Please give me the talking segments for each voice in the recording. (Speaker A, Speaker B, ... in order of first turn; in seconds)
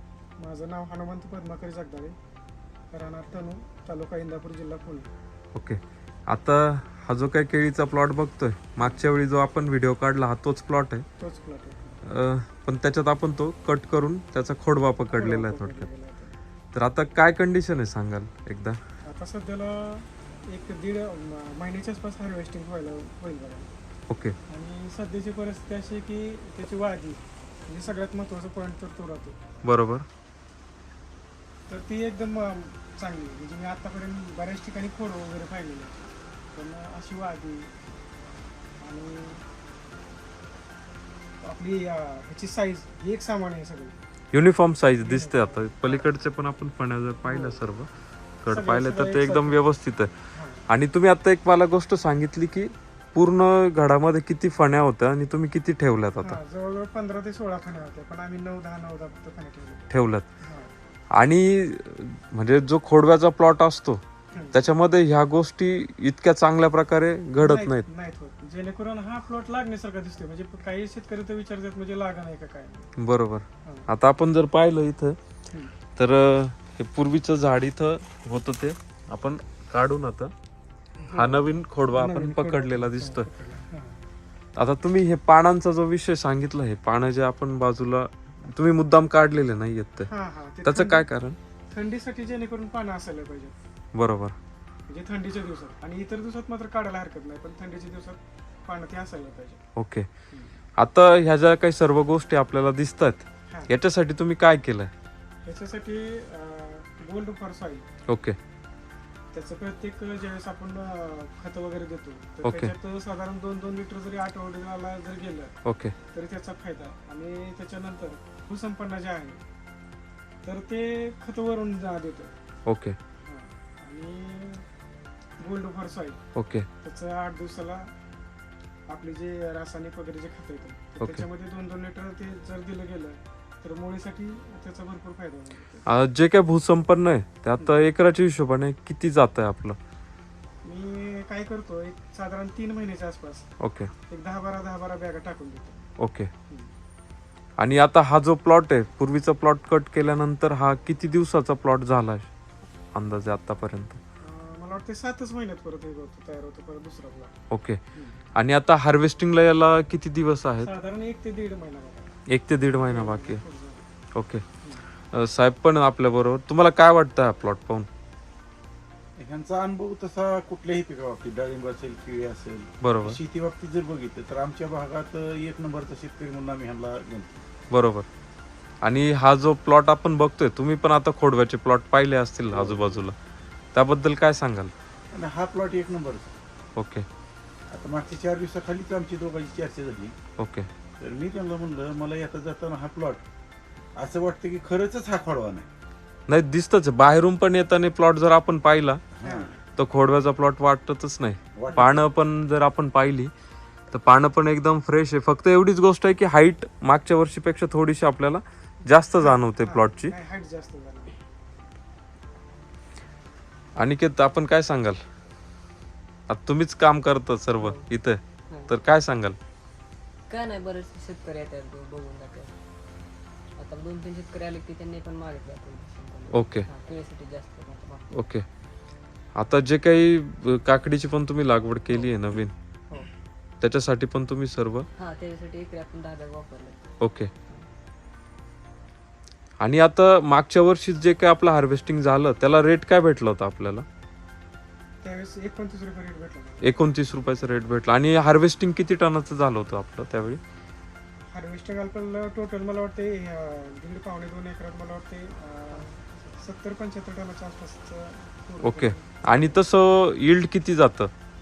Speaker A: 0.4-2.2, 2.9-5.1, 8.8-9.1, 11.2-12.0, 15.1-16.4, 19.0-23.7, 24.5-29.4, 31.7-37.8, 38.8-39.5, 41.4-44.0, 45.0-46.1, 47.3-47.6, 48.5-49.7, 50.3-50.7, 56.2-60.8, 64.3-64.7, 67.4-72.9, 73.6-73.9, 81.0-84.0, 90.1-91.1, 91.7-93.6, 94.9-99.6, 100.3-100.6, 103.5-103.8, 105.4-107.9, 109.3-115.6, 116.1-119.4, 120.4-122.3, 123.2-124.7, 125.4-126.2, 126.8-127.9, 128.9-135.9, 140.6-143.5, 144.1-145.9, 154.2-157.3, 157.9-158.2, 160.6-163.9, 199.2-199.6, 209.2-211.2, 245.0-246.9, 251.3-259.6
Speaker B: 5.5-11.1, 12.1-15.9, 16.7-18.8, 24.1-24.4, 29.6-30.1, 44.3-47.9, 48.4-50.1, 50.7-56.4, 59.9-60.3, 61.1-64.0, 64.5-67.9, 73.0-75.2, 76.0-80.3, 81.1-83.3, 84.6-90.1, 90.6-91.4, 93.9-94.3, 99.8-100.1, 100.8-104.9, 108.1-108.4, 112.4-112.7, 115.7-116.0, 122.7-123.0, 126.3-126.7, 131.0-131.3, 135.9-139.8, 143.6-143.9, 146.0-146.3, 147.6-152.3, 152.9-154.0, 157.5-157.8, 158.3-160.7, 162.3-163.4, 164.2-164.4, 165.1-167.9, 172.8-173.2, 177.7-178.1, 178.8-183.2, 183.7-184.7, 186.8-187.1, 190.4-190.7, 196.3-199.0, 199.8-203.3, 203.9-210.1, 213.8-215.0, 216.3-219.4, 226.3-226.7, 228.1-228.5, 229.3-232.5, 233.6-234.9, 237.0-237.3, 239.6-243.9, 246.6-250.4, 258.6-261.1
Speaker C: 169.2-177.3, 182.5-183.1, 185.1-186.3, 187.7-190.2, 191.0-193.2, 194.0-195.7, 199.1-199.6, 201.6-202.1
Speaker D: 217.6-217.8, 220.3-222.6, 223.6-228.2, 235.0-236.9